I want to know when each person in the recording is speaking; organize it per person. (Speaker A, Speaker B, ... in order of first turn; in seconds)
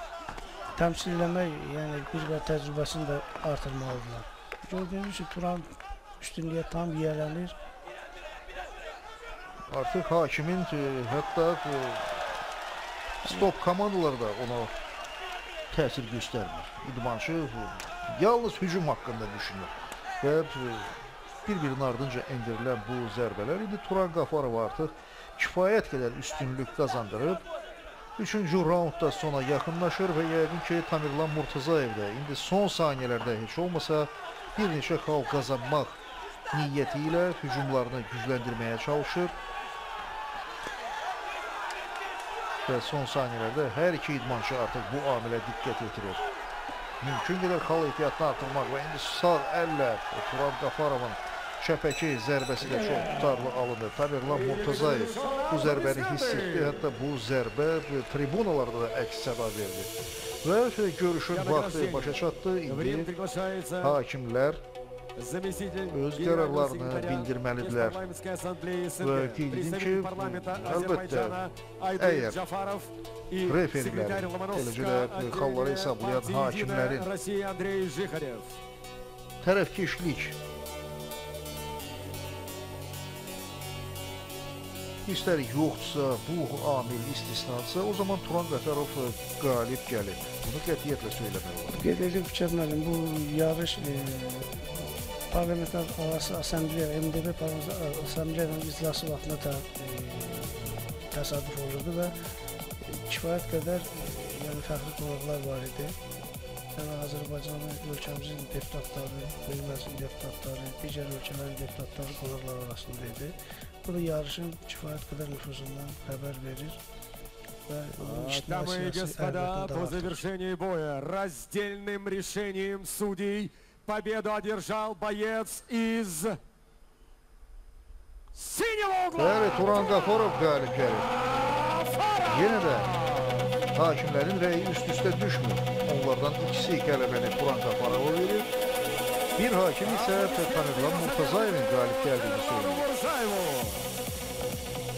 Speaker A: 0.7-7.6, 91.7-102.1, 102.8-106.0, 106.7-116.8, 117.7-120.2
Speaker B: 9.7-12.2, 13.2-14.7, 15.7-27.4, 28.2-36.0, 36.5-39.4, 42.6-46.2, 47.0-59.9, 60.4-63.1, 63.8-64.6, 65.9-68.0, 69.0-71.4, 72.0-72.4, 73.4-77.1, 79.4-80.4, 85.0-91.9, 129.2-131.1, 132.3-132.9, 133.7-138.5, 139.3-142.9
Speaker C: 52.6-53.4, 54.2-56.9, 61.3-64.0, 65.2-78.5, 118.0-126.4, 128.3-130.2, 131.2-133.5, 139.8-143.9